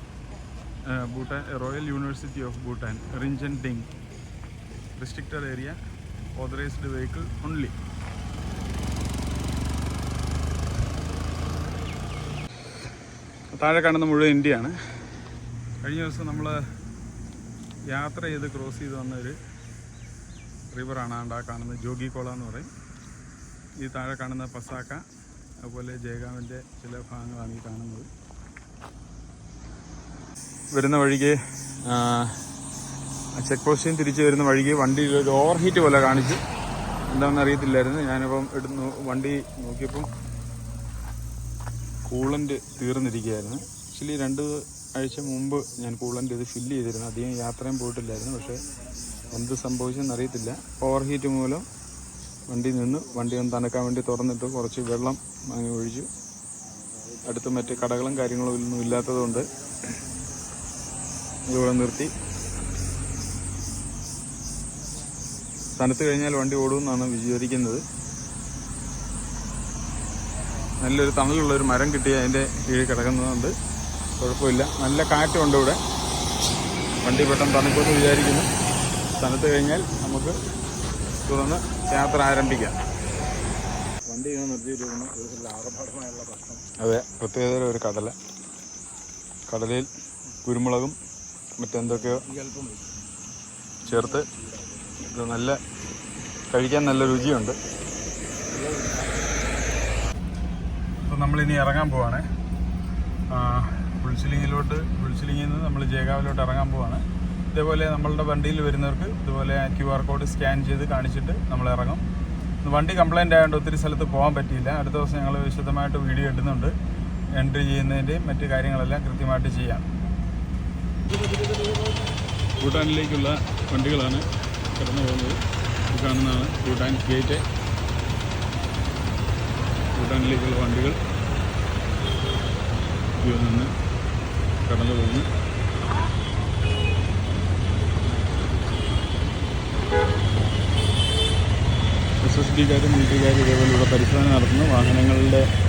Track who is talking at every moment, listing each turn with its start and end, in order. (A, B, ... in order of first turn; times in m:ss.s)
0:00.8-0:03.9 A
0:05.0-0:05.8 A
0:06.4-0:07.7 A
0:13.5-0:14.8 A
0:15.8-0:16.6 A
0:17.9-0:19.4 A
0:20.7-0:22.7 A
0:23.8-0:25.0 A
0:25.6-0:28.1 A
0:30.7-0:32.4 A
0:33.3-0:36.4 A
0:37.1-0:40.1 A
0:42.0-0:48.6 A
0:49.3-0:51.6 A
0:52.5-0:56.1 A
0:57.0-0:58.0 B
0:57.2-0:59.5 A
1:01.5-1:02.1 A
1:05.7-1:07.8 A
1:10.8-1:13.5 A
1:14.2-1:15.8 A
1:17.0-1:18.5 A
1:19.2-1:20.4 A
1:21.2-1:22.8 A
1:24.1-1:26.6 B
1:26.8-1:28.1 A
1:29.5-1:29.9 A
1:30.4-1:31.0 A
1:31.6-1:32.2 A
1:31.9-1:32.9 B
1:33.8-1:34.2 A
1:33.9-1:35.0 B
1:35.0-1:35.6 A
1:36.5-1:37.6 A
1:37.1-1:37.4 B
1:38.5-1:39.4 B
1:41.0-1:42.2 A
1:43.3-1:52.0 A
1:52.6-1:56.7 A
1:57.4-1:59.9 A
2:01.1-2:02.1 B
2:02.6-2:05.4 A
2:05.9-2:07.4 A
2:09.9-2:11.0 A
2:13.2-2:13.7 A
2:14.6-2:15.3 A
2:22.2-2:25.5 A